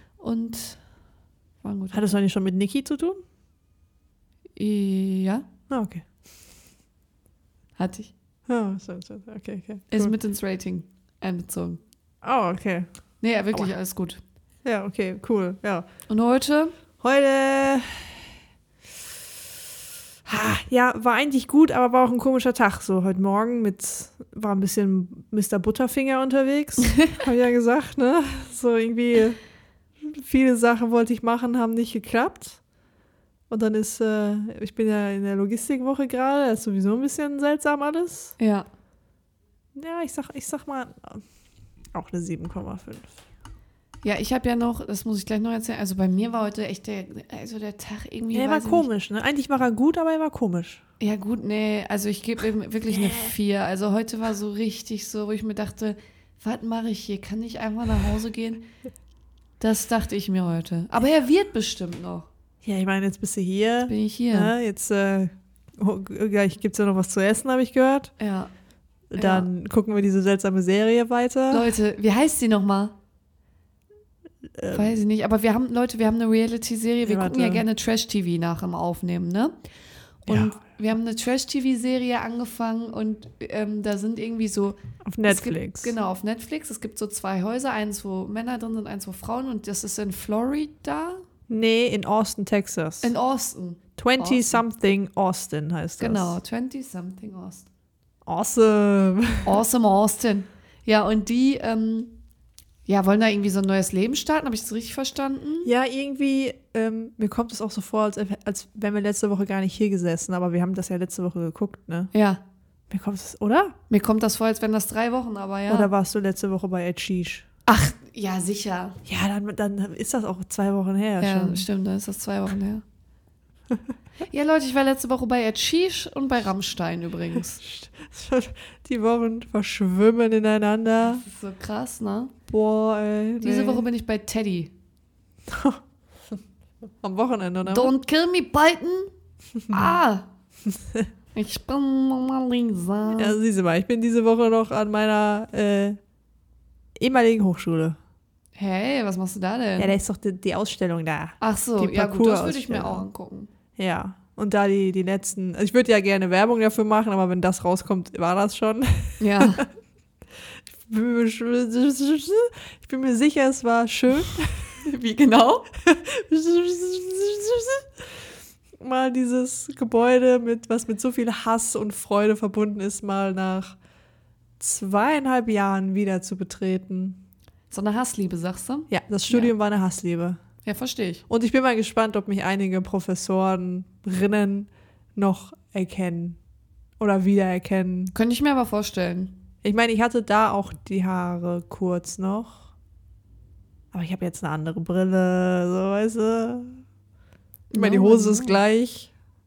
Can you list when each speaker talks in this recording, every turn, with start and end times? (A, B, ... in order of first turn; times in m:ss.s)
0:00.2-0:00.8 A
0:01.6-0:02.2 A
0:01.9-0:03.2 B
0:04.6-0:05.5 A
0:05.7-0:06.1 B
0:07.8-0:08.1 A
0:08.5-0:10.1 B
0:09.9-0:11.8 A
0:12.2-0:12.9 B
0:13.2-0:14.2 A
0:14.6-0:15.9 B
0:16.1-0:16.7 A
0:17.0-0:18.2 B
0:20.2-0:29.4 B
0:26.8-0:27.2 A
0:30.0-0:32.6 B
0:33.5-0:38.4 B
0:38.4-0:38.7 A
0:39.8-0:41.2 B
0:41.9-0:43.1 B
0:44.0-0:48.9 A
0:48.3-0:50.8 B
0:51.0-0:58.6 A
0:52.9-0:53.3 B
0:59.6-1:02.3 A
1:02.6-1:08.1 B
1:03.9-1:04.5 A
1:08.2-1:08.5 A
1:09.1-1:11.8 B
1:09.2-1:09.5 A
1:11.5-1:13.0 A
1:14.6-1:14.9 B
1:14.7-1:19.6 A
1:17.0-1:17.6 B
1:20.2-1:31.2 A
1:20.3-1:20.6 B
1:25.0-1:25.9 B
1:31.5-1:33.1 B
1:33.0-1:34.6 A
1:34.0-1:36.4 B
1:36.0-1:37.7 A
1:38.3-1:39.6 B
1:39.5-1:42.2 A
1:42.8-1:45.7 A
1:45.6-1:52.1 B
1:52.1-1:52.4 A
1:52.9-1:53.8 B
1:53.9-1:55.9 A
1:55.7-1:57.4 B
1:57.7-1:59.0 A
1:59.0-2:01.7 B
2:01.2-2:02.8 A
2:04.2-2:07.6 A
2:07.6-2:11.2 B
2:11.1-2:12.3 A
2:12.5-2:13.8 B
2:13.4-2:14.7 A
2:15.5-2:15.8 B
2:17.0-2:17.9 B
2:17.6-2:19.1 A
2:19.6-2:19.9 B
2:19.7-2:20.3 A
2:20.7-2:21.1 B
2:21.3-2:23.4 A
2:23.2-2:26.0 B
2:27.0-2:28.0 B
2:28.5-2:30.0 A
2:29.8-2:33.1 B
2:31.4-2:33.5 A
2:33.8-2:39.7 B
2:39.2-2:39.7 A
2:40.7-2:44.8 B
2:44.8-2:45.7 A
2:45.8-2:48.2 B
2:48.8-2:53.8 B
2:54.6-2:57.2 B
2:57.7-2:59.5 A
2:58.9-3:00.4 B
3:00.6-3:01.2 A
3:01.3-3:06.4 B
3:07.0-3:08.1 B
3:08.1-3:09.4 A
3:09.6-3:12.7 B
3:13.9-3:16.8 B
3:17.7-3:18.6 A
3:17.7-3:19.1 B